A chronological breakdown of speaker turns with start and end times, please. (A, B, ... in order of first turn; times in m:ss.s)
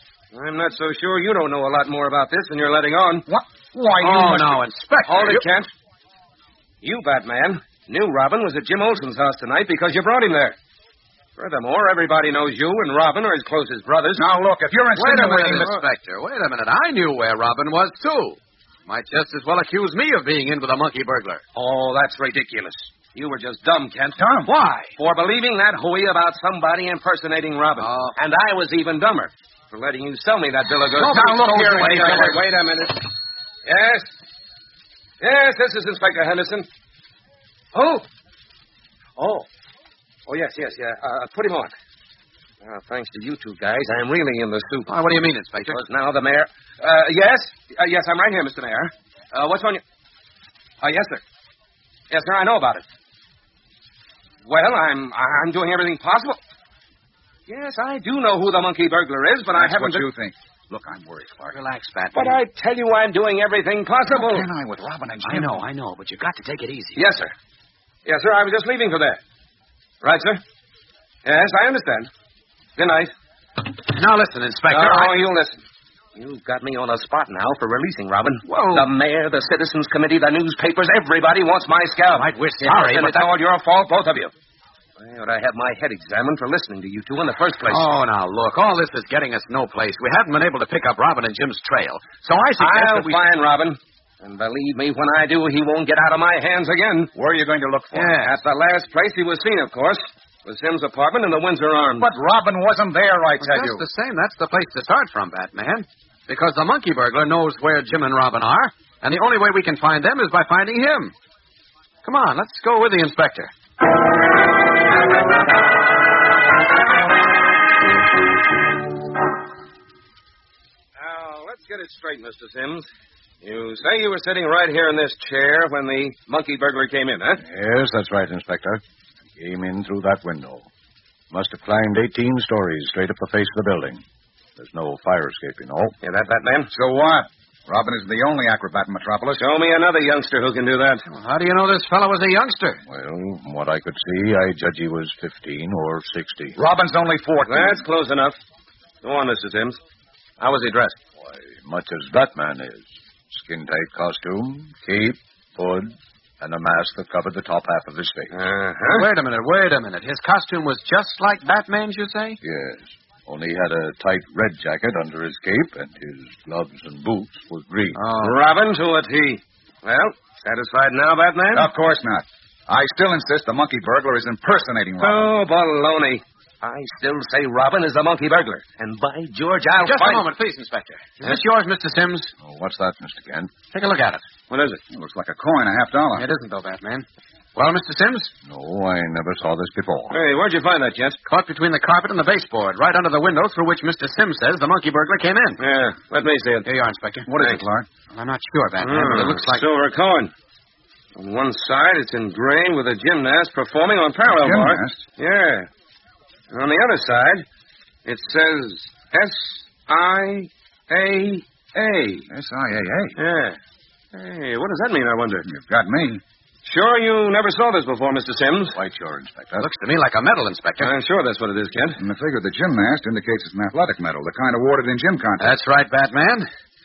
0:00.3-0:03.2 A
0:03.3-0:04.6 B
0:04.0-0:05.4 C
0:05.1-0:05.7 A
0:06.8-0:10.6 A
0:11.4-0:14.2 A
0:14.2-0:15.8 B
0:15.0-0:21.4 C
0:15.4-0:15.8 A
0:21.6-0:24.2 A
0:24.2-0:24.5 B
0:24.5-0:24.9 C
0:25.0-0:33.0 A
0:27.8-0:28.2 C
0:31.0-0:32.4 B
0:31.0-0:32.4 C
0:33.7-0:34.1 A
0:35.2-0:36.7 A
0:37.7-0:38.0 A
0:39.2-0:39.5 A
0:40.3-0:41.7 A
0:42.6-0:44.9 A
0:44.9-0:45.8 C
0:45.7-0:49.8 A
0:50.8-0:51.2 A
0:52.1-0:52.8 A
0:54.4-0:56.4 A
0:57.5-1:00.0 A
0:59.5-1:01.6 B
1:01.5-1:02.4 C
1:02.1-1:04.5 A
1:04.1-1:05.6 B
1:05.2-1:07.0 C
1:07.0-1:07.3 A
1:08.1-1:09.2 A
1:10.0-1:10.4 A
1:11.2-1:12.1 A
1:12.8-1:13.1 A
1:13.9-1:15.1 C
1:14.7-1:15.6 A
1:16.2-1:24.3 A
1:18.4-1:18.9 C
1:22.1-1:23.3 C
1:25.0-1:27.9 A
1:27.7-1:33.2 C
1:32.6-1:37.1 A
1:37.2-1:38.3 B
1:37.9-1:38.4 C
1:38.2-1:42.1 A
1:42.0-1:43.8 B
1:43.4-1:51.1 C
1:52.0-1:53.5 C
2:01.0-2:02.9 A
2:03.4-2:07.4 A
2:07.4-2:08.8 D
2:09.4-2:10.7 D
2:11.3-2:14.0 D
2:14.6-2:15.9 D
2:16.0-2:16.7 A
2:16.7-2:19.4 B
2:19.4-2:21.0 A
2:21.1-2:22.8 C
2:22.9-2:26.6 D
2:26.6-2:27.8 B
2:27.4-2:28.4 A
2:29.0-2:29.8 A
2:30.4-2:31.0 A
2:31.2-2:38.3 D
2:38.3-2:39.1 A
2:38.9-2:42.4 C
2:42.4-2:48.0 D
2:47.9-2:48.4 C
2:48.2-2:51.7 A
2:51.5-2:55.3 B
2:55.0-3:00.3 A
2:59.8-3:02.3 C
3:02.4-3:03.5 D
3:03.7-3:04.2 C
3:04.5-3:04.8 A
3:04.9-3:06.2 B
3:06.1-3:08.3 C
3:08.5-3:10.2 D
3:10.1-3:11.2 A
3:11.3-3:15.6 C
3:15.6-3:16.7 A
3:16.6-3:17.3 C
3:17.3-3:17.9 B
3:18.1-3:19.6 C
3:18.8-3:20.3 A
3:21.2-3:25.7 A
3:24.2-3:25.0 B
3:26.5-3:27.4 A
3:28.1-3:32.2 A
3:32.3-3:33.2 B
3:33.2-3:33.6 A
3:34.1-3:35.5 A
3:35.5-3:36.2 B
3:36.6-3:38.8 A
3:38.8-3:39.7 D
3:39.6-3:40.9 C
3:40.8-3:42.0 A
3:42.0-3:45.6 B
3:45.4-3:46.5 C